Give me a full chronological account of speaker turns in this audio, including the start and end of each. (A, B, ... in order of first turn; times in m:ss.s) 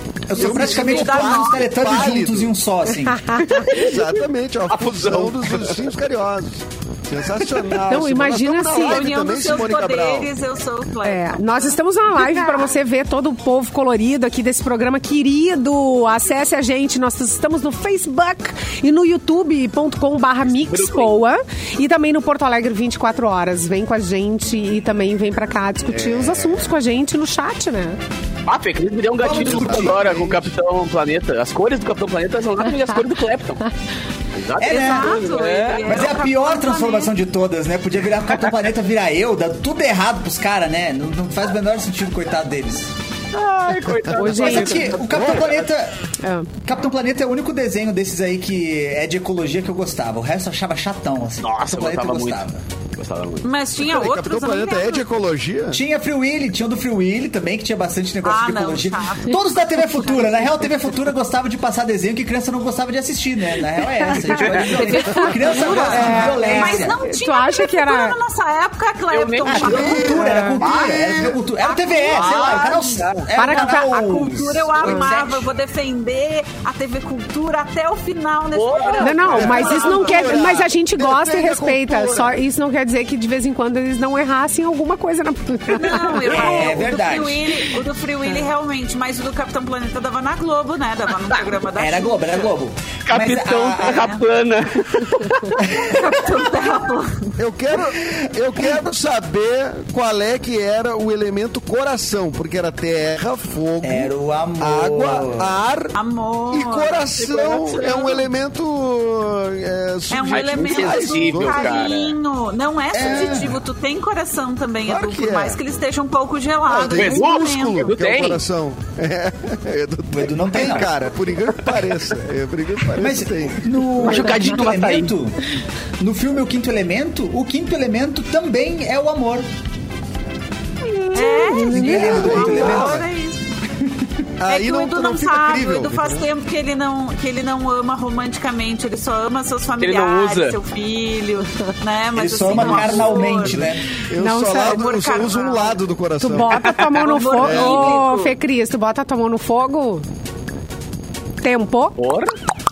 0:00.3-0:03.3 A
0:00.3-0:02.5 B
0:00.4-0:01.9 C
0:03.1-0:03.6 D
0:03.4-0:06.0 E
0:03.6-0:10.3 B
0:07.6-0:09.3 D
0:08.7-0:12.7 C
0:11.0-0:28.0 D
0:20.4-0:21.2 E
0:25.9-0:26.7 B
0:28.4-0:33.6 E
0:29.2-0:30.4 A
0:29.3-0:30.2 B
0:34.3-0:36.1 E
0:34.6-0:42.9 A
0:34.6-0:37.1 C
0:43.3-0:45.7 E
0:43.8-0:44.1 B
0:44.1-0:45.0 D
0:44.2-0:45.9 A
0:45.1-0:45.5 B
0:46.2-0:46.5 D
0:46.6-0:52.6 A
0:51.4-0:52.4 E
0:53.0-0:53.5 E
0:53.4-0:55.1 C
0:53.8-0:55.8 B
0:55.7-1:07.0 A
0:58.2-1:00.6 C
1:04.3-1:05.0 E
1:04.7-1:10.3 C
1:05.1-1:08.2 D
1:09.1-1:11.3 E
1:09.5-1:15.4 A
1:09.7-1:11.4 B
1:10.2-1:10.6 D
1:11.6-1:20.4 C
1:12.1-1:13.3 E
1:13.4-1:14.0 D
1:18.5-1:19.4 E
1:19.0-1:26.4 D
1:19.3-1:22.4 B
1:25.7-1:32.4 C
1:26.3-1:27.5 A
1:31.8-1:34.2 A
1:33.0-1:35.6 E
1:33.9-1:34.2 C
1:35.6-1:36.6 A
1:35.9-1:37.3 C
1:37.4-1:45.9 B
1:43.8-1:45.5 A
1:45.9-1:48.2 C
1:46.5-1:51.9 B
1:47.2-1:48.2 E
1:50.1-1:57.9 C
1:50.3-1:52.2 E
1:52.9-1:53.6 A
1:54.8-1:55.6 B
1:56.6-2:04.2 B
1:56.9-1:58.4 E
2:00.1-2:00.9 A
2:03.0-2:05.4 A
2:04.0-2:05.2 E
2:06.0-2:09.5 A
2:11.1-2:11.7 D
2:11.1-2:13.5 C
2:11.7-2:13.0 B
2:11.7-2:13.0 A
2:14.4-2:16.2 B
2:14.5-2:23.7 C
2:19.8-2:20.6 E
2:22.1-2:23.8 A
2:22.6-2:26.7 B
2:24.2-2:24.8 D
2:24.5-2:25.8 C
2:26.2-2:30.0 D
2:26.9-2:28.4 C
2:27.4-2:28.0 B
2:31.4-2:32.0 D
2:32.0-2:32.3 E